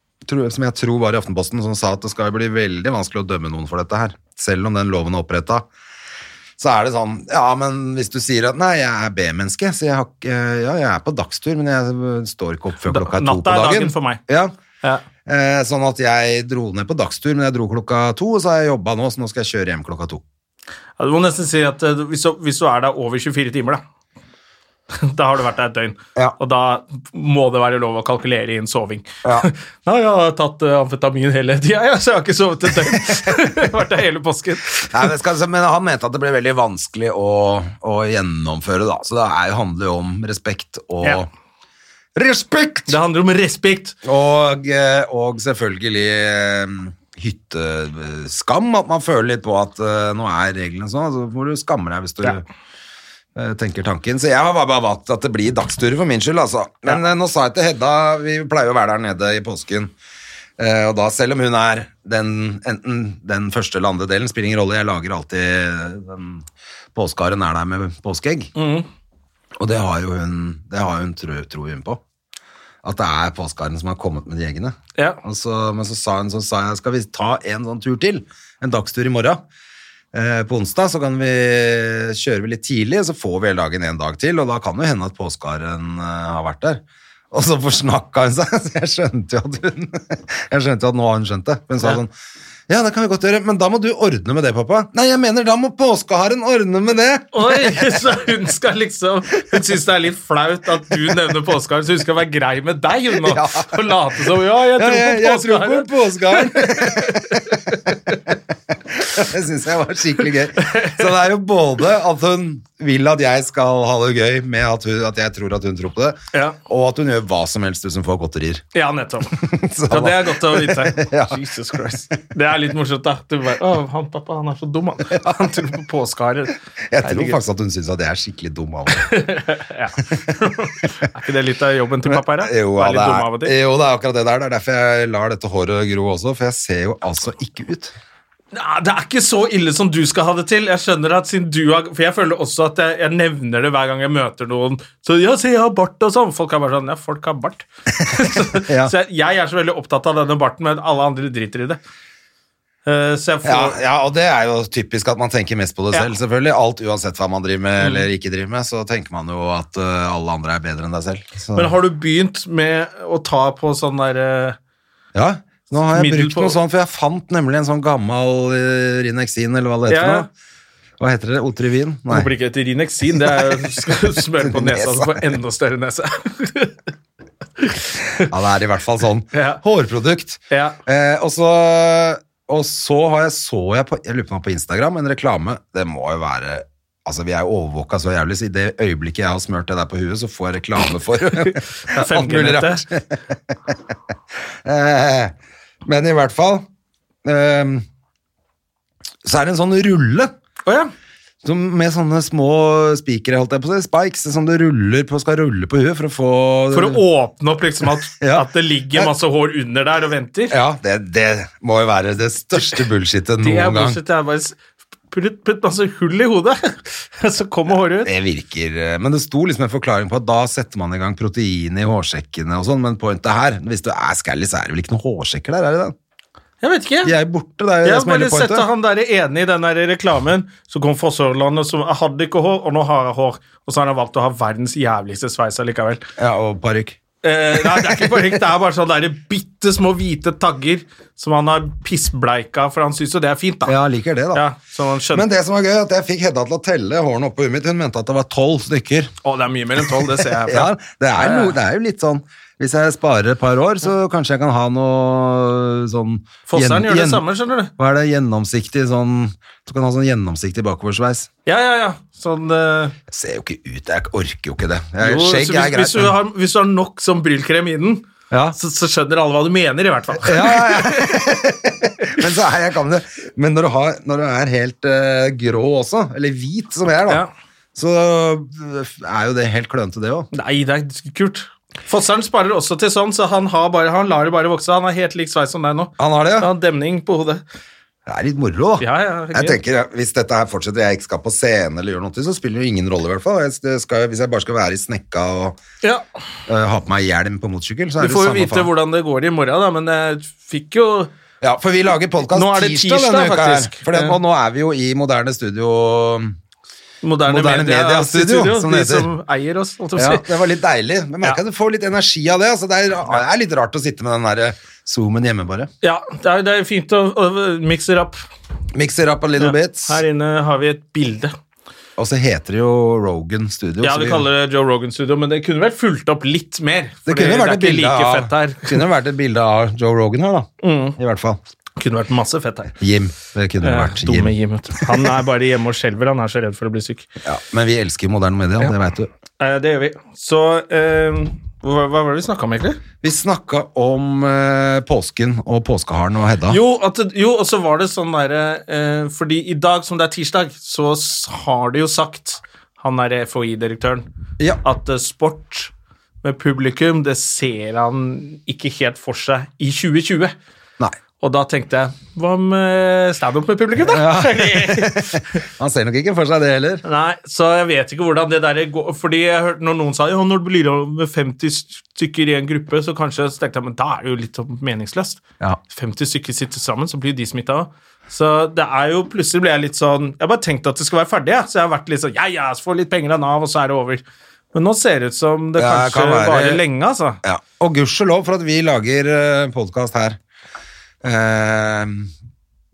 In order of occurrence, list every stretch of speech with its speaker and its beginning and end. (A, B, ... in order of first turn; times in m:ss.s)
0:00.2-0:05.6 A
0:06.6-0:14.5 A
0:12.8-0:14.2 B
0:15.2-0:20.2 A
0:21.0-0:23.8 B
0:24.9-0:35.1 B
0:29.2-0:29.5 A
0:32.9-0:33.4 A
0:34.9-0:41.3 A
0:42.1-0:43.0 A
0:42.9-0:43.9 B
0:44.0-0:52.4 A
0:53.3-0:59.9 A
1:00.6-1:08.5 A
1:08.5-1:08.9 B
1:09.6-1:12.0 A
1:12.8-1:19.4 A
1:20.1-1:32.1 A
1:32.7-1:37.8 A
1:37.3-1:48.2 B
1:43.1-1:43.9 A
1:44.8-1:47.6 A
1:48.3-1:58.6 A
1:50.5-1:51.1 B
1:58.7-1:59.4 B
1:59.4-2:01.4 A
1:59.9-2:07.4 B
2:06.9-2:09.1 A
2:08.9-2:13.5 B
2:12.1-2:17.9 A
2:18.5-2:31.8 B
2:28.5-2:28.9 A
2:32.8-2:33.8 B
2:33.4-2:41.7 A
2:37.8-2:38.0 B
2:41.5-2:44.6 B
2:45.1-2:50.3 A
2:45.9-2:46.6 B
2:49.9-2:50.2 B
2:51.0-2:52.3 A
2:52.1-2:56.8 B
2:53.3-2:55.3 A
2:57.6-2:58.3 B
2:58.2-3:13.8 A
2:59.3-2:59.6 B
3:00.5-3:00.8 B
3:11.4-3:12.8 B
3:14.6-3:16.6 A
3:17.2-3:17.8 A
3:19.2-3:20.3 A
3:20.6-3:20.9 B
3:21.4-3:27.0 A
3:26.7-3:30.6 B
3:28.1-3:29.1 A
3:30.5-3:34.0 A
3:33.4-3:34.6 B
3:35.1-3:38.1 B
3:38.0-3:45.9 A
3:46.6-3:47.2 B
3:47.0-3:48.7 A
3:47.8-3:56.0 B
3:56.2-3:57.0 A
3:57.2-4:03.7 B
3:57.5-3:58.2 A
4:03.6-4:04.4 A
4:04.3-4:05.2 B
4:05.1-4:09.1 A
4:09.2-4:11.5 B
4:09.8-4:17.2 A
4:16.5-4:17.7 B
4:17.8-4:21.3 A
4:21.4-4:23.0 B
4:23.1-4:26.1 A
4:25.0-4:31.3 B
4:28.3-4:28.6 A
4:30.2-4:37.2 A
4:37.7-4:40.3 A
4:40.3-4:47.4 B
4:46.0-4:46.5 A
4:48.0-4:55.6 A
4:48.8-4:49.6 B
4:56.5-4:58.7 A
4:58.0-5:01.1 B
5:01.4-5:06.3 A
5:02.3-5:04.2 B
5:07.0-5:10.3 B
5:07.2-5:09.1 A
5:10.0-5:15.7 A
5:15.8-5:18.2 B
5:18.7-5:20.0 A
5:19.4-5:21.3 B
5:22.0-5:24.2 A
5:23.8-5:28.8 B
5:27.0-5:31.4 A
5:30.6-5:31.0 B
5:31.8-5:32.7 B
5:32.8-5:35.1 A
5:33.6-5:37.1 B
5:37.2-5:39.1 A
5:39.4-5:42.8 B
5:43.0-5:46.6 A
5:46.5-5:54.0 B
5:54.6-5:55.7 B
5:56.2-6:00.3 B
6:01.2-6:05.2 B
6:03.8-6:06.8 A
6:06.8-6:24.0 B
6:24.5-6:27.2 B
6:25.6-6:26.6 A
6:27.2-6:30.2 A
6:31.0-6:32.1 A